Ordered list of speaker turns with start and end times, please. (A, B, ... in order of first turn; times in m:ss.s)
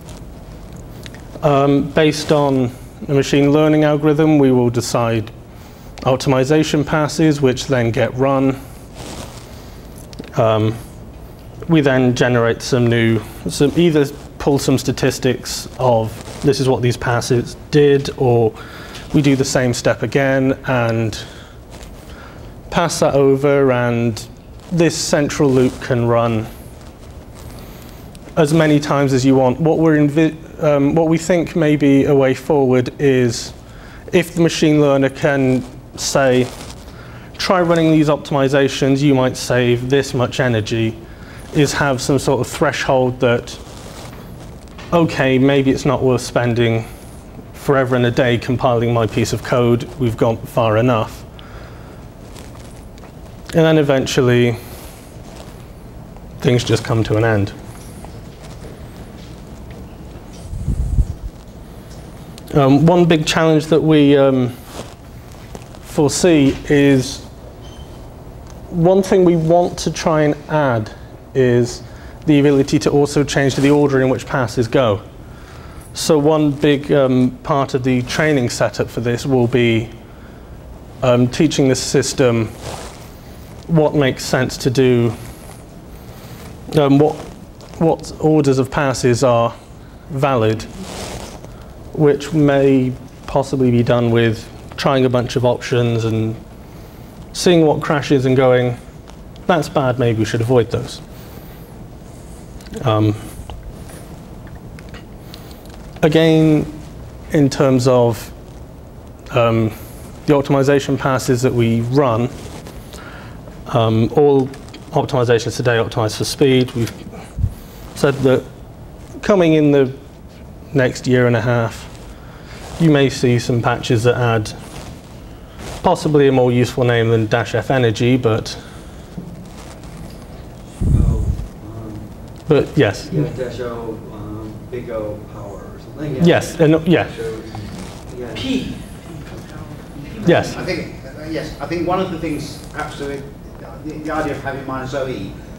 0:01.4-0:05.3 A
0:06.0-0:08.6 A
0:10.3-0:10.8 A
0:11.7-0:18.6 A
0:19.1-0:21.2 A
0:22.7-0:26.5 A
0:28.4-0:33.6 A
0:34.1-0:36.5 A
0:37.4-0:41.0 A
0:41.5-0:43.6 A
0:44.9-0:46.9 A
0:47.5-0:51.2 A
0:53.5-0:54.6 A
0:56.4-0:57.6 A
1:02.5-1:04.6 A
1:05.8-1:07.3 A
1:08.7-1:15.0 A
1:15.9-1:19.9 A
1:21.0-1:22.5 A
1:23.7-1:25.2 A
1:26.7-1:29.6 A
1:30.1-1:30.7 A
1:31.9-1:36.4 A
1:37.3-1:38.8 A
1:39.5-1:41.0 A
1:42.8-1:43.2 A
1:46.0-1:46.8 A
1:47.3-1:48.3 A
1:49.3-1:52.3 A
1:53.7-1:57.2 A
1:57.9-1:58.5 A
1:59.2-2:00.0 A
2:00.7-2:01.9 A
2:02.8-2:04.6 A
2:05.8-2:08.6 A
2:10.9-2:12.1 B
2:12.5-2:13.2 A
2:13.0-2:18.6 B
2:16.2-2:17.1 A
2:20.2-2:20.6 A
2:20.3-2:25.3 C